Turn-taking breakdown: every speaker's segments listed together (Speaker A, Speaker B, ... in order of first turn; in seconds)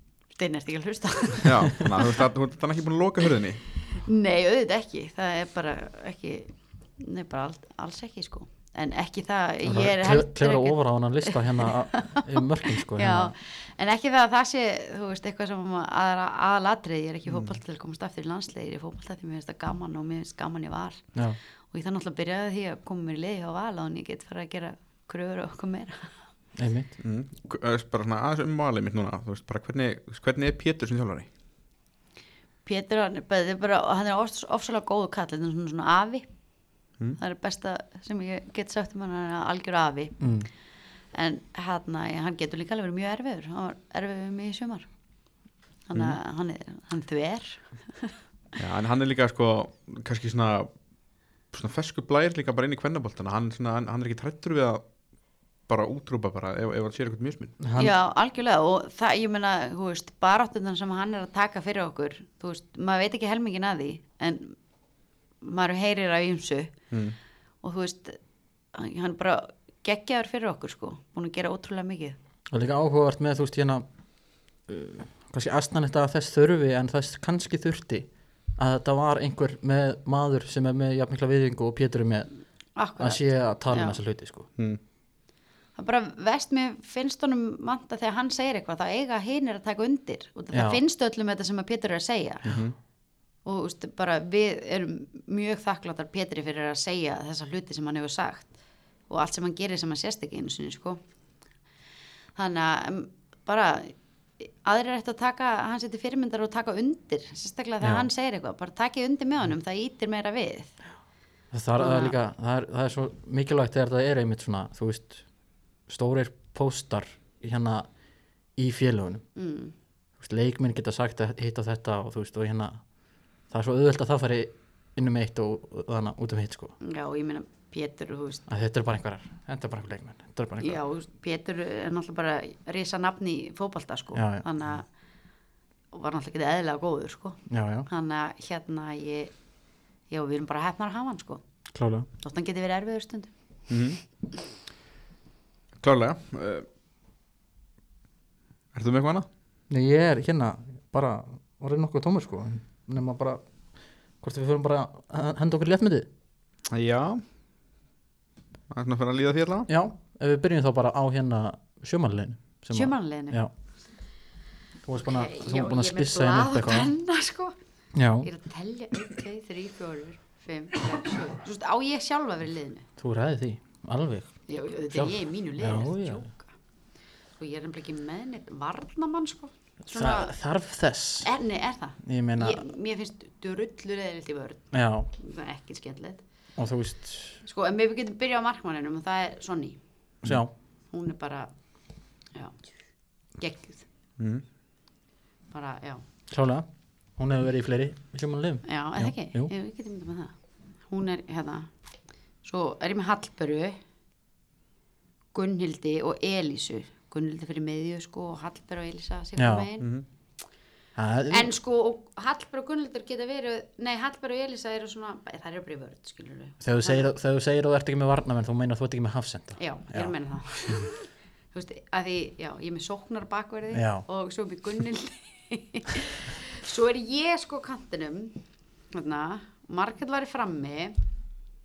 Speaker A: 0.4-1.9, 3.9-21.1, 21.7-26.2, 32.6-36.3, 37.2-40.2, 41.1-44.9, 45.9-48.2, 57.8-64.6, 65.4-66.8, 67.6-68.2, 68.7-72.2, 82.8-84.0, 85.8-92.6, 93.5-98.5, 99.1-101.0, 102.4-110.7, 111.8-112.2, 119.4-119.7, 126.8-128.4, 130.6-134.8, 135.9-139.3, 140.1-141.4, 142.2-143.3, 162.7-163.4, 165.0-167.6, 168.2-172.9, 174.5-176.5, 177.4-180.3, 181.2-186.2, 187.4-189.8, 190.9-191.5, 193.4-193.9, 195.5-196.0, 198.7-200.3, 200.9-201.7, 202.4-203.8, 205.3-209.9, 211.3-217.1, 219.6-228.4, 228.9-231.0
Speaker B: 1.4-3.7, 27.0-31.3, 48.6-50.7, 51.5-54.8, 55.7-57.6, 66.9-67.2, 92.5-92.8, 143.7-144.0, 145.8-146.7, 148.7-149.3, 156.7-157.2, 158.7-159.7, 194.2-194.4
Speaker C: 9.7-13.3, 26.6-26.9, 40.2-40.5, 57.6-58.0, 72.5-73.9, 74.7-82.4, 83.0-84.5, 90.5-90.8, 107.8-108.1, 111.5-115.2, 115.9-117.9, 118.6-119.2, 120.2-122.8, 123.5-126.8, 128.5-130.8, 134.1-134.4, 137.5-137.9, 141.7-142.1, 149.7-153.4, 154.2-156.1, 159.7-163.5, 164.8-166.9, 167.9-168.3, 173.0-176.3, 179.9-181.3, 182.0-182.6, 184.7-185.1, 186.6-187.4, 190.2-190.5, 196.3-199.5, 209.4-209.7, 211.0-211.5, 216.6-220.8, 223.7-224.1